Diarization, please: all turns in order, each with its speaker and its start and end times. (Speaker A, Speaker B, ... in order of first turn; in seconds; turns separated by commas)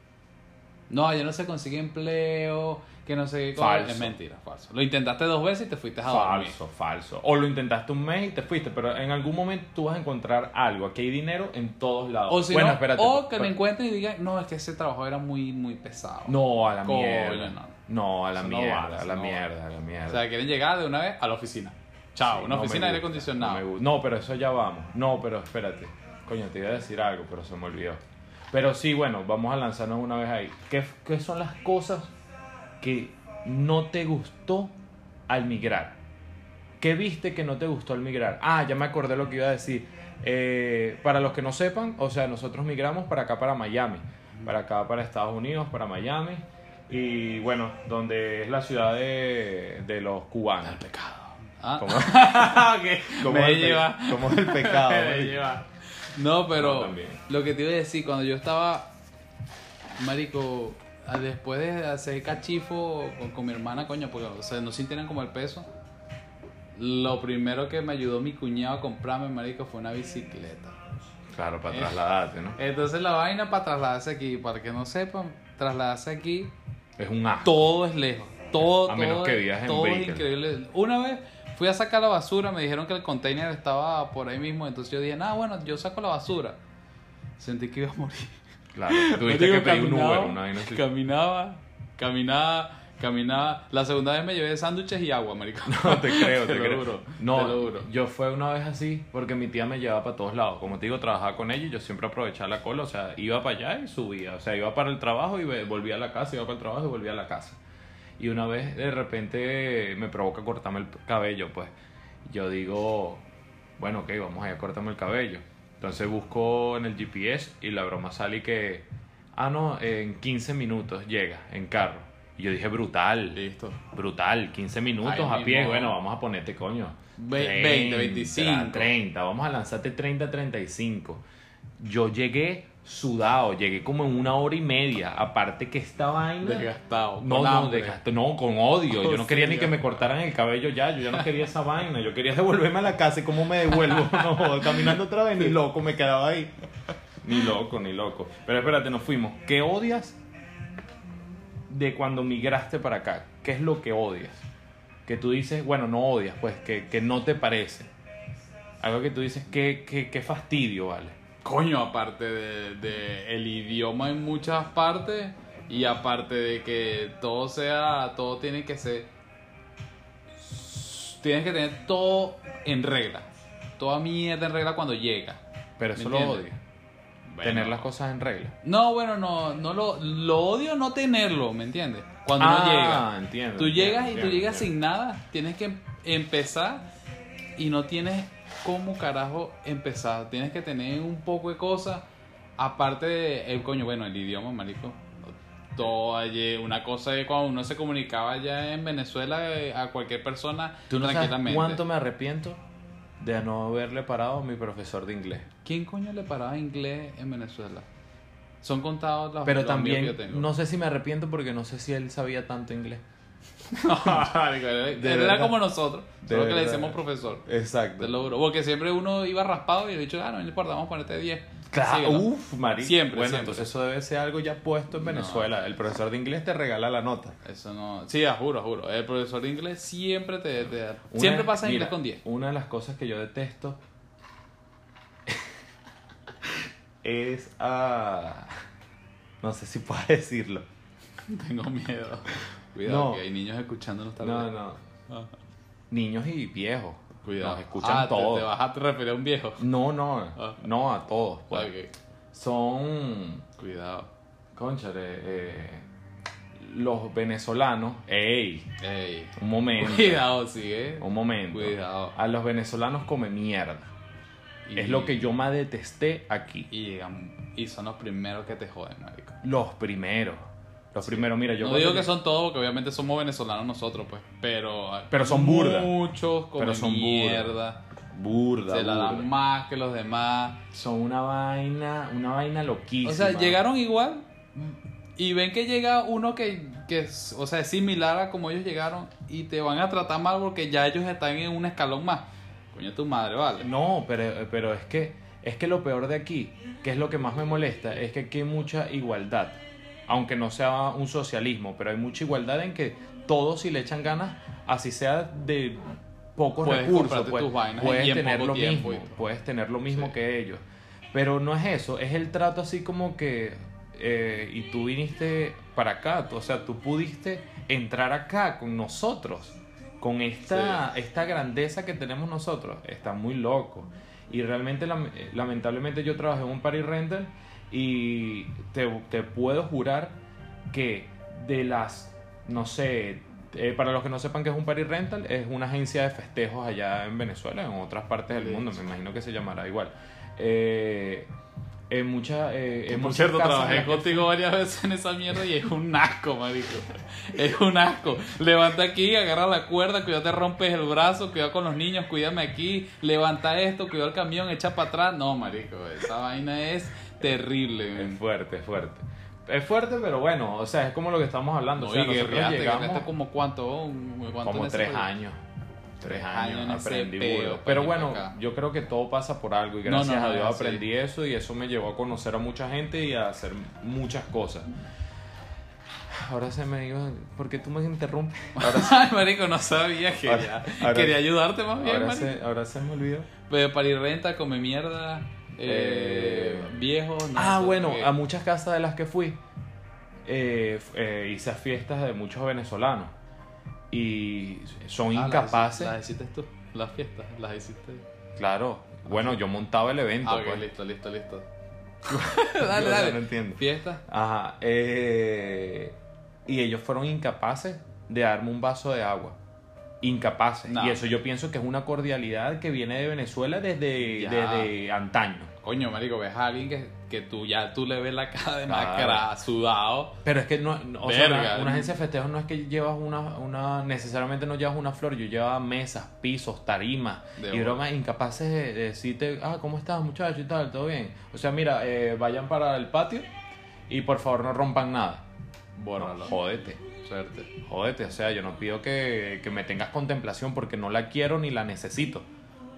Speaker A: 0.9-6.6, Speaker B: 3.6-4.2, Speaker B: 6.1-13.5, Speaker A: 12.3-17.8, Speaker B: 16.3-20.2, Speaker A: 18.3-19.4, Speaker A: 20.1-23.6, Speaker B: 22.3-28.0, Speaker B: 28.5-32.1, Speaker B: 32.8-34.7, Speaker B: 35.3-36.0, Speaker B: 36.8-50.8, Speaker A: 50.6-58.9, Speaker B: 51.8-55.4, Speaker B: 56.6-57.2, Speaker A: 60.0-65.7, Speaker A: 66.8-70.8, Speaker B: 71.3-72.6, Speaker A: 71.7-72.0, Speaker A: 72.6-76.5, Speaker B: 77.0-77.7, Speaker A: 77.4-86.6, Speaker B: 78.6-80.3, Speaker A: 87.4-88.4, Speaker B: 88.8-90.8, Speaker A: 88.9-97.9, Speaker B: 95.7-107.6, Speaker B: 108.2-111.7, Speaker B: 112.2-113.2, Speaker B: 113.8-123.4, Speaker A: 123.3-123.8, Speaker B: 123.9-131.2, Speaker A: 125.0-125.9, Speaker A: 127.2-128.9, Speaker B: 131.8-146.5, Speaker A: 136.4-138.0, Speaker A: 138.9-139.9, Speaker A: 143.8-144.9, Speaker B: 147.2-150.2, Speaker B: 151.7-154.4, Speaker B: 155.1-157.9, Speaker B: 158.8-161.2, Speaker A: 161.4-169.1, Speaker A: 170.4-173.3, Speaker A: 173.8-175.4, Speaker B: 175.8-176.6, Speaker A: 176.0-176.5, Speaker A: 177.3-177.9, Speaker B: 177.4-178.5, Speaker A: 178.6-186.9, Speaker B: 182.4-184.7, Speaker A: 187.6-192.0, Speaker A: 192.6-201.8, Speaker B: 200.9-202.6, Speaker B: 203.2-205.5, Speaker A: 205.7-207.9, Speaker A: 208.6-210.5, Speaker B: 209.4-213.0, Speaker A: 213.7-217.5, Speaker B: 214.0-215.6, Speaker B: 216.2-218.2, Speaker A: 218.0-222.3, Speaker B: 221.7-227.4, Speaker A: 222.8-223.7, Speaker A: 224.9-225.5, Speaker A: 227.4-232.2, Speaker B: 231.1-233.8, Speaker B: 236.4-238.5, Speaker B: 239.4-240.7, Speaker A: 241.3-244.5, Speaker B: 242.8-243.2, Speaker B: 244.2-244.8, Speaker B: 245.9-248.5, Speaker A: 247.2-249.7, Speaker B: 249.6-251.7, Speaker A: 251.5-251.9, Speaker B: 252.3-253.4, Speaker A: 253.6-254.1, Speaker B: 254.6-255.9, Speaker B: 256.6-258.7, Speaker A: 258.8-262.2, Speaker B: 259.4-260.2, Speaker B: 261.0-263.9, Speaker A: 264.7-265.3, Speaker B: 264.8-266.7, Speaker A: 266.7-269.4, Speaker B: 269.4-270.4, Speaker B: 270.9-272.1, Speaker A: 271.0-277.8, Speaker B: 275.1-275.9, Speaker B: 276.6-277.5, Speaker B: 278.1-279.3, Speaker A: 278.7-280.6, Speaker B: 280.7-283.6, Speaker A: 283.0-293.7, Speaker B: 293.6-330.2, Speaker A: 306.6-309.2, Speaker A: 320.5-320.8, Speaker B: 330.7-341.3, Speaker A: 338.3-338.7, Speaker B: 341.9-344.3, Speaker A: 342.9-358.2, Speaker B: 357.9-363.1, Speaker A: 361.8-365.1, Speaker B: 364.4-365.4, Speaker A: 366.0-368.3, Speaker B: 366.0-374.7, Speaker A: 369.9-370.9, Speaker B: 376.1-379.0, Speaker A: 378.6-382.4, Speaker B: 380.2-381.2, Speaker B: 381.8-383.3, Speaker A: 383.5-388.1, Speaker B: 385.6-386.8, Speaker B: 387.4-389.4, Speaker B: 390.2-393.1, Speaker B: 393.9-395.9, Speaker A: 395.1-398.0, Speaker B: 398.4-400.6, Speaker A: 399.1-399.4, Speaker A: 400.2-401.5, Speaker A: 402.1-404.0, Speaker B: 402.1-405.9, Speaker B: 406.5-409.4, Speaker B: 410.0-415.5, Speaker A: 410.7-411.1, Speaker A: 414.0-414.7, Speaker A: 415.6-420.2, Speaker B: 418.7-419.2, Speaker B: 420.2-433.3, Speaker A: 421.0-421.9, Speaker A: 427.4-427.8, Speaker B: 433.9-435.2, Speaker A: 435.8-436.4, Speaker B: 436.0-436.8, Speaker A: 436.9-437.5, Speaker B: 437.6-442.3